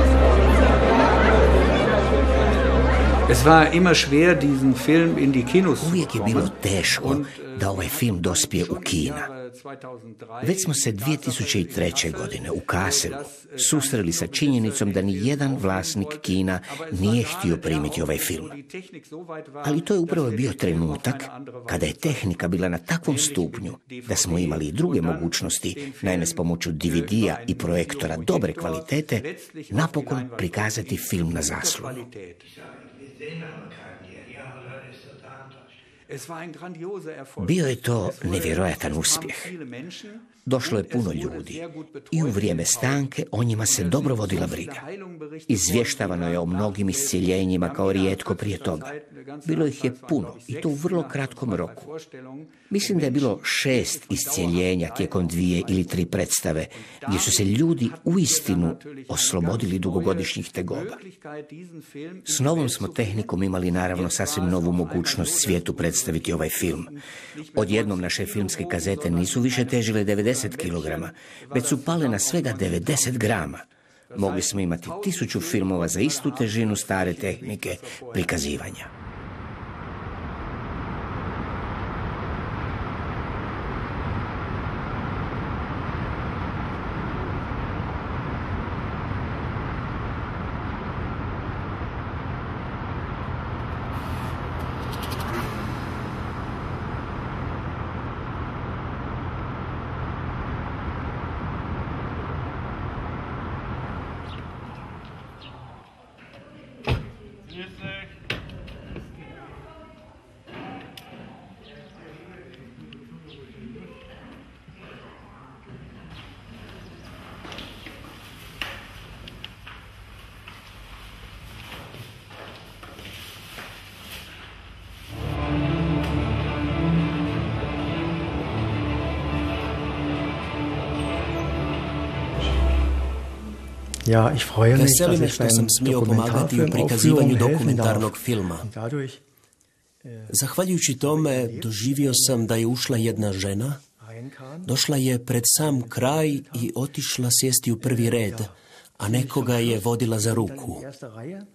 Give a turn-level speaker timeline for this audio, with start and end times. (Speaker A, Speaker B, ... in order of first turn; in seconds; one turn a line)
Speaker A: 3.3-22.0
Speaker B: 5.8-9.3
Speaker B: 10.4-18.6
Speaker B: 19.6-32.1
Speaker A: 23.1-32.5
Speaker A: 36.1-43.0
Speaker B: 37.4-39.5
Speaker B: 40.5-44.8
Speaker A: 43.6-55.9
Speaker B: 45.5-51.9
Speaker B: 52.7-61.0
Speaker A: 57.0-63.3
Speaker B: 62.2-66.9
Speaker A: 63.9-66.7
Speaker A: 67.4-73.3
Speaker B: 67.5-73.6
Speaker A: 74.1-78.3
Speaker B: 74.1-78.9
Speaker C: 134.1-139.2
Speaker D: 134.7-138.7
Speaker D: 140.3-143.8
Speaker D: 144.6-150.8